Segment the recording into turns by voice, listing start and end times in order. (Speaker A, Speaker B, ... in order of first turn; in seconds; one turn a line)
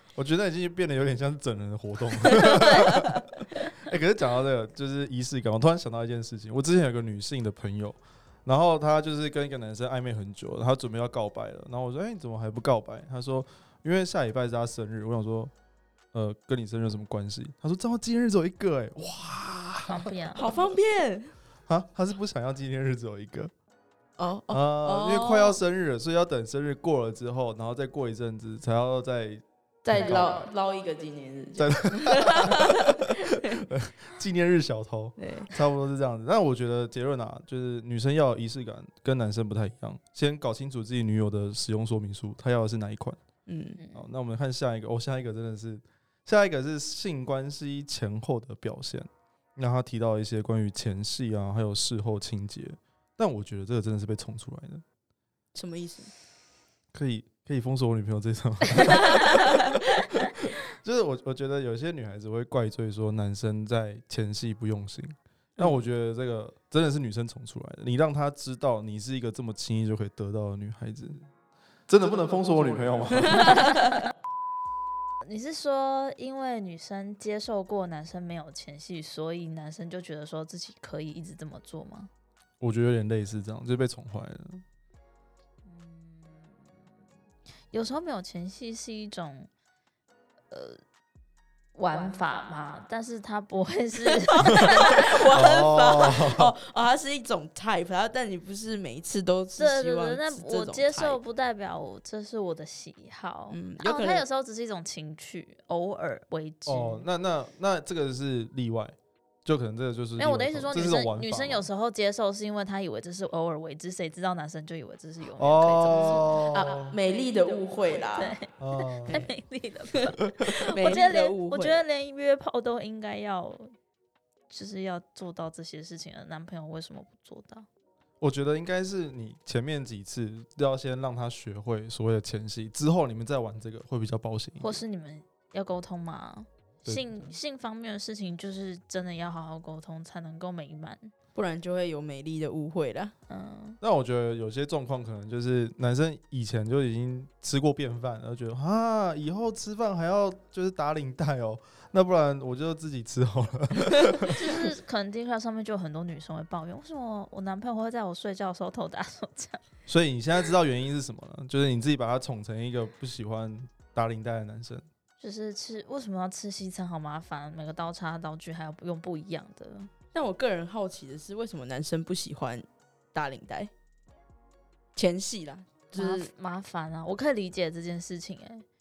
Speaker A: 0.2-15.5
Speaker B: 2.4-3.0
Speaker C: 2.4-3.2
Speaker A: 16.1-20.6
Speaker B: 19.9-20.5
Speaker C: 20.4-21.3
Speaker A: 21.7-23.5
Speaker C: 24.2-25.6
Speaker A: 24.5-30.4
Speaker C: 29.8-33.6
Speaker A: 31.6-43.2
Speaker C: 35.2-35.5
Speaker C: 43.5-43.8
Speaker B: 43.8-44.1
Speaker A: 43.9-54.8
Speaker C: 55.5-56.1
Speaker A: 56.9-71.3
Speaker C: 59.1-59.7
Speaker A: 71.9-73.7
Speaker C: 73.4-73.7
Speaker B: 73.5-73.8
Speaker B: 75.2-82.1
Speaker A: 82.6-84.6
Speaker B: 85.7-86.5
Speaker B: 87.7-89.5
Speaker B: 90.5-90.8
Speaker B: 91.8-95.4
Speaker C: 94.1-101.2
Speaker A: 94.5-96.5
Speaker B: 99.6-107.1
Speaker C: 103.5-104.2
Speaker A: 106.7-111.7
Speaker B: 110.2-116.5
Speaker A: 115.4-117.0
Speaker C: 116.0-118.4
Speaker B: 118.2-123.7
Speaker A: 118.6-119.2
Speaker C: 119.9-121.8
Speaker B: 124.5-127.7
Speaker A: 128.2-134.8
Speaker B: 134.6-141.1
Speaker A: 136.8-137.2
Speaker C: 141.3-143.1
Speaker B: 143.3-143.8
Speaker A: 143.8-154.6
Speaker B: 154.3-159.6
Speaker A: 159.9-164.9
Speaker B: 165.2-169.9
Speaker C: 170.1-173.7
Speaker C: 175.0-176.3
Speaker B: 175.9-178.7